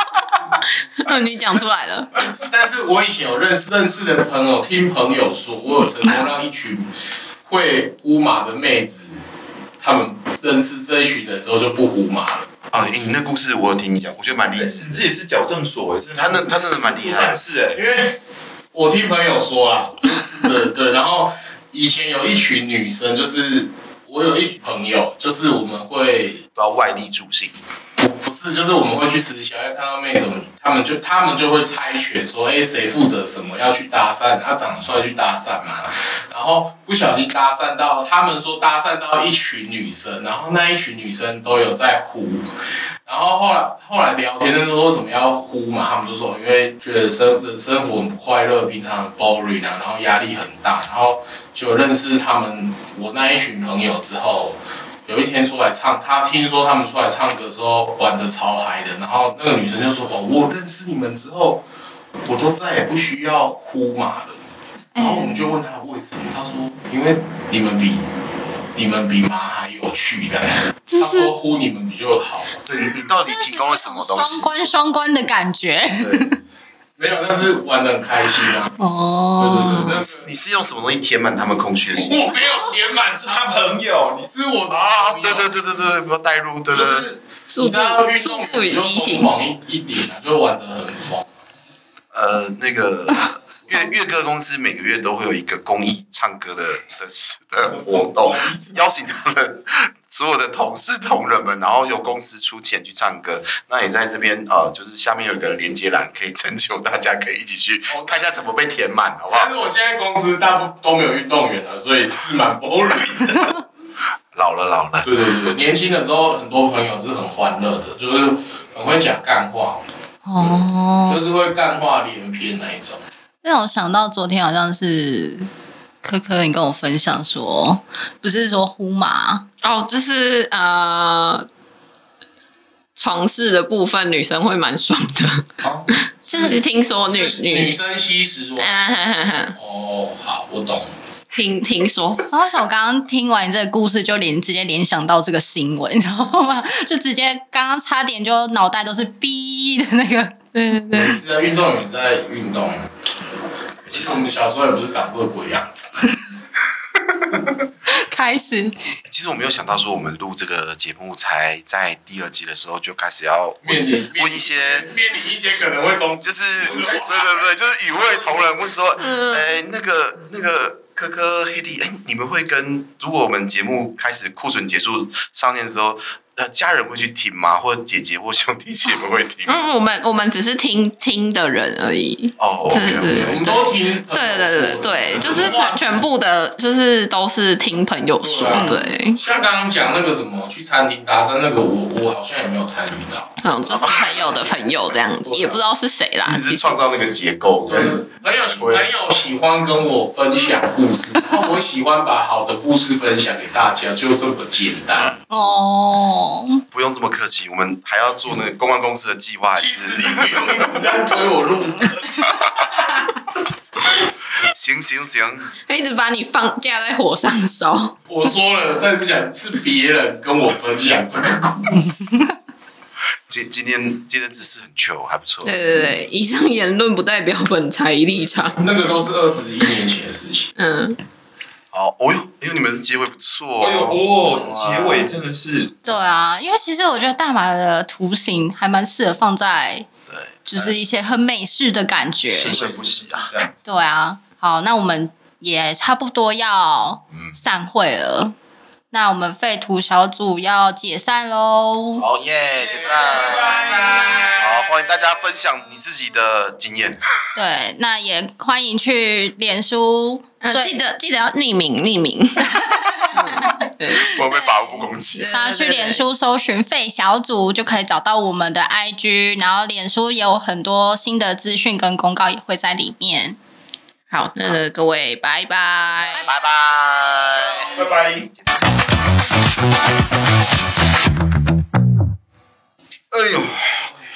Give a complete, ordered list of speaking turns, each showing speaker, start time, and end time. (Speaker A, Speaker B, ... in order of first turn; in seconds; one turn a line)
Speaker A: 0.9-2.1
Speaker B: 2.3-6.9
Speaker B: 7.4-9.2
Speaker B: 9.8-12.5
Speaker C: 12.7-15.0
Speaker D: 14.5-17.8
Speaker C: 16.1-17.4
Speaker B: 17.7-18.2
Speaker B: 18.7-26.5
Speaker C: 26.6-27.6
Speaker B: 28.0-42.5
Speaker B: 43.0-61.6
Speaker B: 62.2-64.4
Speaker B: 65.0-68.1
Speaker E: 65.0-65.5
Speaker B: 68.8-72.7
Speaker A: 70.9-71.3
Speaker C: 72.6-74.5
Speaker E: 73.2-76.4
Speaker C: 76.0-76.3
Speaker B: 77.0-78.8
Speaker E: 78.8-80.0
Speaker B: 79.4-80.3
Speaker A: 79.6-79.9
Speaker C: 79.9-82.3
Speaker B: 82.0-85.5
Speaker D: 83.1-84.3
Speaker C: 84.7-87.1
Speaker B: 86.7-91.3
Speaker A: 87.5-89.3
Speaker C: 92.1-109.5
Speaker D: 97.8-98.3
Speaker B: 107.9-108.3
Speaker B: 109.3-113.6
Speaker C: 114.3-115.1
Speaker B: 115.0-119.8
Speaker E: 120.2-121.2
Speaker B: 121.0-123.0
Speaker E: 123.4-125.5
Speaker E: 126.0-129.5
Speaker A: 129.6-131.5
Speaker A: 133.0-135.5
Speaker B: 135.6-138.8
Speaker A: 136.3-137.8
Speaker E: 136.3-136.6
Speaker A: 138.6-139.6
Speaker B: 139.6-140.9
Speaker A: 141.3-142.2
Speaker E: 142.3-150.4
Speaker A: 150.5-151.2
Speaker B: 150.9-152.9
Speaker B: 153.9-155.9
Speaker C: 153.9-154.2
Speaker E: 157.8-159.0
Speaker C: 159.1-164.9
Speaker B: 163.6-167.4
Speaker C: 166.2-179.7
Speaker A: 179.5-189.2
Speaker C: 182.4-183.5
Speaker B: 183.1-186.0
Speaker B: 188.2-193.3
Speaker E: 188.5-188.8
Speaker A: 193.4-196.8
Speaker B: 194.1-194.6
Speaker B: 195.2-195.6
Speaker C: 196.2-198.9
Speaker B: 197.7-205.2
Speaker E: 205.3-206.6
Speaker C: 206.7-210.9
Speaker B: 209.6-212.3
Speaker C: 214.4-215.5
Speaker A: 215.7-217.9
Speaker B: 218.1-222.2
Speaker C: 223.3-225.7
Speaker A: 225.4-228.7
Speaker B: 228.6-230.5
Speaker A: 230.6-231.0
Speaker C: 231.7-235.1
Speaker D: 233.6-235.8
Speaker E: 235.8-239.9
Speaker C: 240.1-240.7
Speaker E: 240.5-242.6
Speaker C: 242.3-243.3
Speaker D: 242.5-243.6
Speaker E: 243.7-248.3
Speaker E: 248.9-252.0
Speaker C: 252.0-253.6
Speaker D: 252.6-254.7
Speaker C: 254.4-257.0
Speaker E: 257.4-260.8
Speaker A: 260.4-266.1
Speaker E: 262.8-263.1
Speaker C: 264.1-265.3
Speaker E: 265.3-273.4
Speaker A: 274.1-276.3
Speaker C: 276.2-277.8
Speaker D: 277.6-278.3
Speaker C: 283.1-283.9